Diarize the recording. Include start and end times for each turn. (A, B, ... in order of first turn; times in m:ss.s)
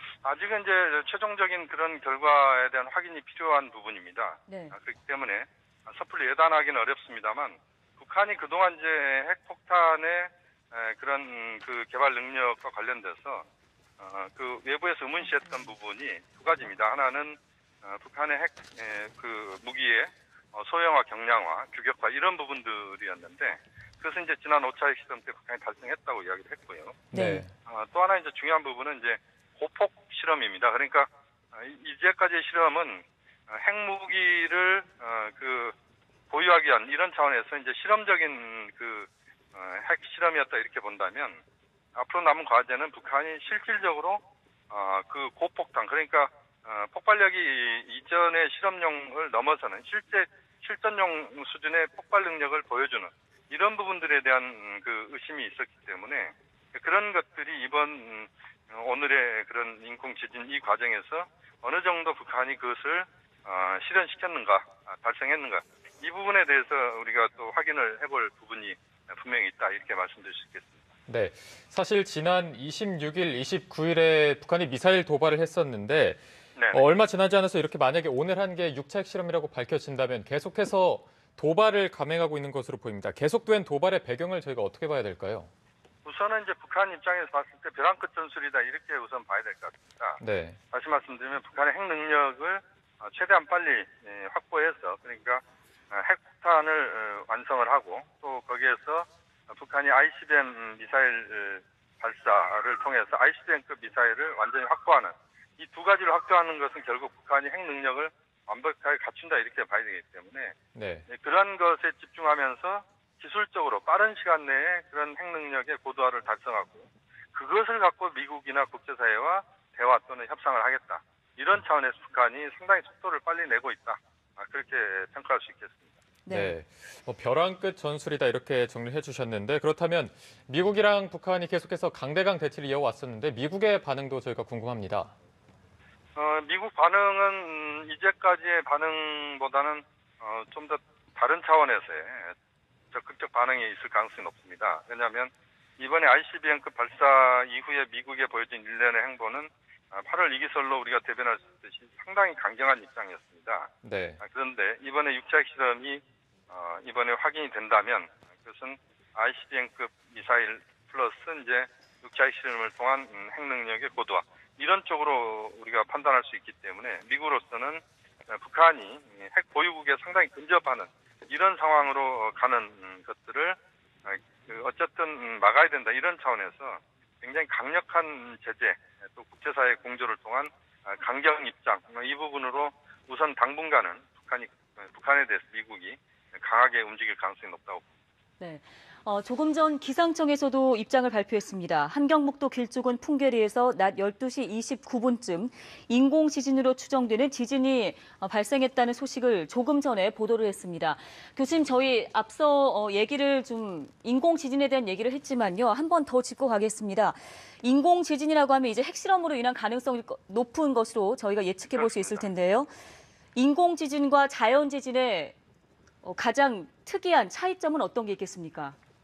0:00.2-0:13.5 A
0:04.5-0:04.8 B
0:14.0-0:27.1 A
0:27.1-0:27.5 C
0:27.1-0:27.4 B
0:27.7-0:35.8 A
0:36.3-0:41.4 A
0:41.9-0:44.2 A
0:44.7-1:10.8 A
1:11.1-1:16.2 C
1:16.6-1:16.8 A
1:16.7-1:25.5 C
1:26.0-1:30.2 A
1:30.2-1:30.6 C
1:30.7-1:50.6 A
1:50.8-1:51.1 C
1:51.1-2:05.9 A
2:06.2-2:06.6 B
2:06.3-2:15.1 C
2:16.2-2:22.3 A
2:22.9-2:33.7 A
2:33.8-2:34.2 C
2:34.2-3:07.9 A
3:08.4-3:32.7 B
3:31.7-3:32.3 A
3:33.4-3:35.4 B
3:36.0-3:38.8 B